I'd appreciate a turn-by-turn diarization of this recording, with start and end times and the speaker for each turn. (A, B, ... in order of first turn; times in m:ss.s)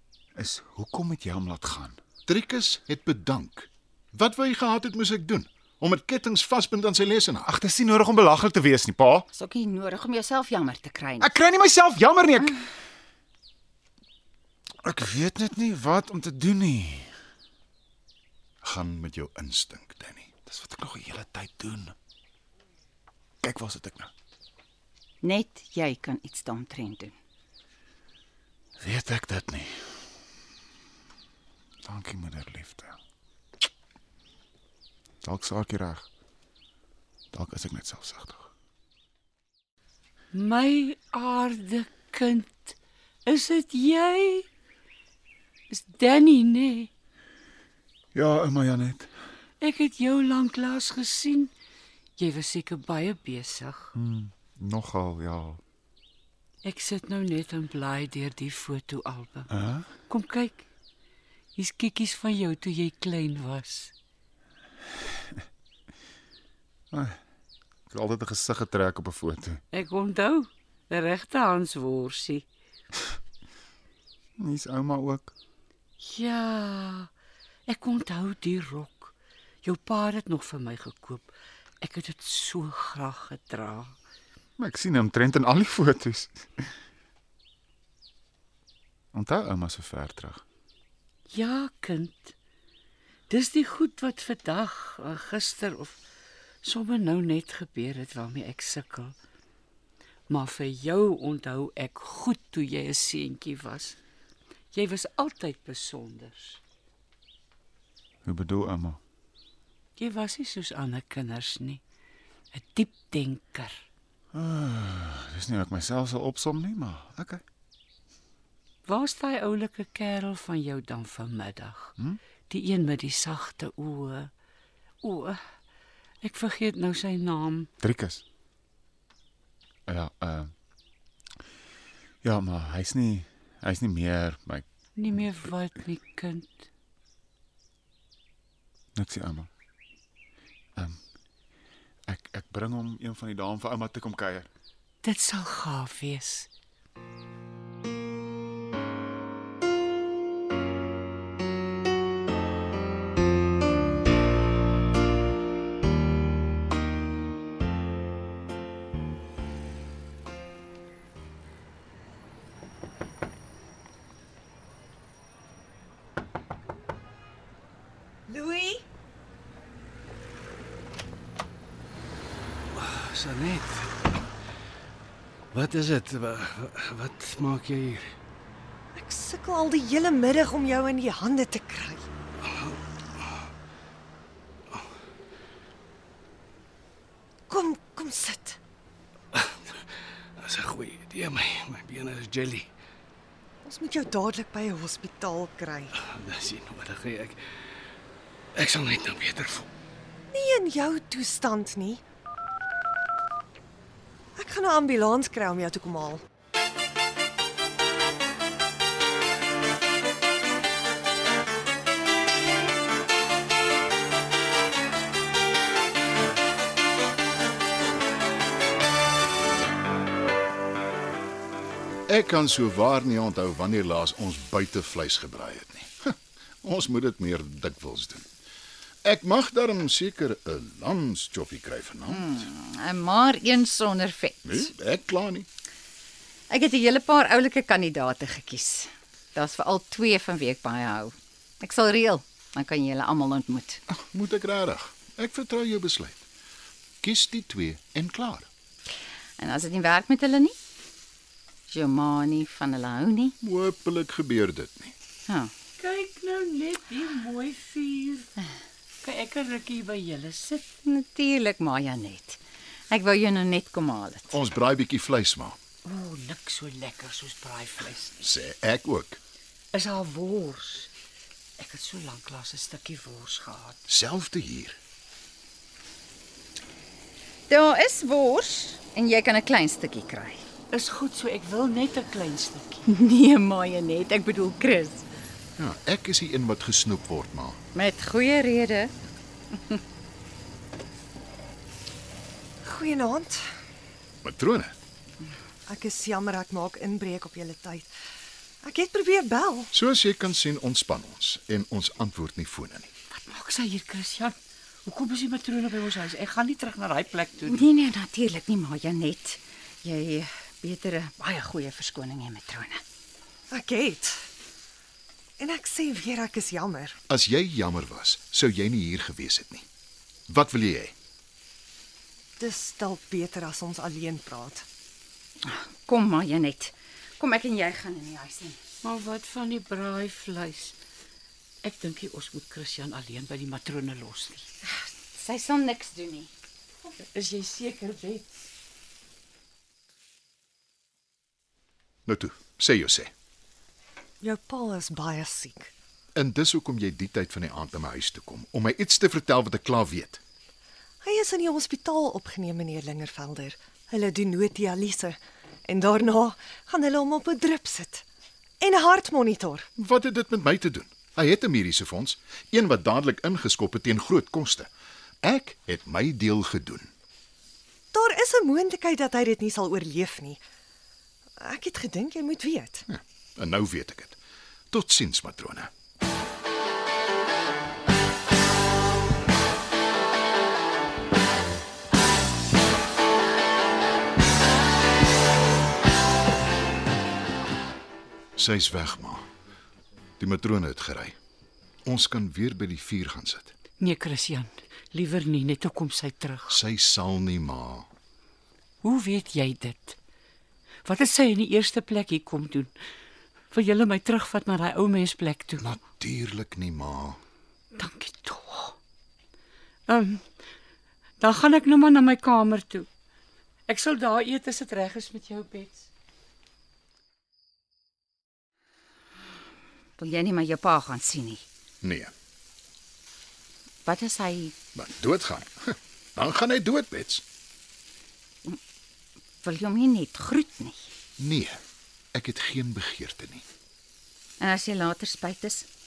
0:00.4-0:02.0 A
0:02.3-0:07.5 B
0:07.5-0:09.3 A
0:09.3-0:11.3 C
0:11.2-0:12.6 A
0:14.8-0:17.1 A
0:18.6-0:20.3 B
0:20.5-0:22.0 A
0:23.4-0:24.1 A
0:25.2-0:27.1 C
0:28.8-0:30.0 A
0:31.8-0:33.0 A
0:35.2-0:36.1 A
0:37.3-0:38.5 A
0:40.3-0:44.5 D
0:45.7-0:46.9 D
0:48.1-0:49.1 A
0:49.6-0:51.5 D
0:52.2-0:53.9 D
0:54.0-0:55.6 A
0:56.6-0:59.5 D
0:59.5-0:59.9 A
1:00.1-1:00.6 D
1:01.6-1:03.9 D
1:06.9-1:07.2 A
1:07.9-1:09.6 A
1:09.7-1:12.5 D
1:14.4-1:15.3 A
1:16.0-1:17.1 D
1:17.7-1:24.0 D
1:24.6-1:26.7 A
1:29.1-1:30.4 A
1:31.3-1:32.3 D
1:33.3-1:36.0 D
1:36.6-1:39.2 D
1:40.3-1:44.0 D
1:44.7-1:46.6 D
1:48.2-1:49.0 A
1:50.0-1:51.8 D
1:52.5-1:53.8 D
1:54.3-1:57.4 A
1:58.8-2:01.9 D
2:02.5-2:04.3 D
2:05.0-2:05.4 D
2:06.2-2:07.7 D
2:07.8-2:08.2 A
2:09.9-2:10.5 A
2:12.2-2:14.6 A
2:15.0-2:16.5 D
2:19.0-2:19.5 A
2:22.1-2:24.5 A
2:25.0-2:26.5 D
2:48.3-2:48.8 E
2:52.7-2:54.2 F
2:55.5-2:58.1 F
2:59.0-3:02.1 E
3:02.4-3:03.4 F
3:07.5-3:08.6 E
3:09.3-3:09.8 F
3:10.4-3:12.7 F
3:13.6-3:15.9 E
3:15.9-3:17.4 F
3:18.6-3:19.7 F
3:20.3-3:22.0 E
3:24.4-3:26.2 E
3:42.1-3:48.3 B
3:49.0-3:52.5 B
3:52.1-3:54.7 C
3:54.4-3:55.5 B
3:56.5-4:03.8 C
4:03.9-4:06.2 B
4:07.0-4:08.5 B
4:09.4-4:10.6 C
4:11.7-4:13.3 C
4:13.4-4:15.0 B
4:15.8-4:18.4 D
4:19.0-4:20.6 D
4:20.8-4:24.4 C
4:24.3-4:25.6 B
4:25.8-4:28.2 D
4:28.2-4:29.2 B
4:29.7-4:30.9 D
4:31.6-4:33.8 D
4:33.9-4:34.8 B
4:37.5-4:40.5 C
4:40.7-4:42.8 D
4:42.9-4:45.0 C
4:45.6-4:47.6 B
4:47.8-4:48.9 C
4:49.5-4:49.8 C
4:52.6-4:53.5 E
4:54.2-4:54.8 B
4:55.7-4:57.9 E
4:58.6-4:59.7 E
4:59.7-5:02.9 B
5:03.1-5:07.7 D
5:07.5-5:12.8 C
5:13.5-5:14.3 E
5:15.4-5:17.0 E
5:17.1-5:19.7 B
5:20.3-5:21.0 B
5:22.4-5:24.7 E
5:25.4-5:28.6 C
5:28.8-5:30.8 D
5:31.6-5:34.5 D
5:34.6-5:36.3 C
5:37.0-5:38.2 D
5:42.1-5:43.1 B
5:44.2-5:45.7 E
5:46.2-5:50.2 B
5:51.0-5:58.0 E
5:58.6-5:59.7 E
5:59.8-6:04.7 B
6:05.2-6:06.9 B
6:07.9-6:10.4 E
6:11.4-6:12.8 E
6:12.9-6:14.2 B
6:14.7-6:15.7 B
6:28.4-6:29.3 B
6:30.2-6:31.2 B
6:31.9-6:33.5 B
6:33.8-6:36.6 D
6:36.5-6:37.9 B
6:38.8-6:40.0 D
6:40.8-6:42.7 D
6:43.5-6:45.7 D
6:45.6-6:47.2 B
6:47.8-6:48.8 D
6:49.9-6:50.2 D
6:51.2-6:52.9 D
6:53.7-6:55.9 D
7:00.0-7:01.4 C
7:01.8-7:02.1 B
7:03.9-7:04.6 C
7:04.8-7:07.2 B
7:09.4-7:10.9 C
7:11.2-7:11.6 B
7:12.1-7:13.5 B
7:14.4-7:15.7 C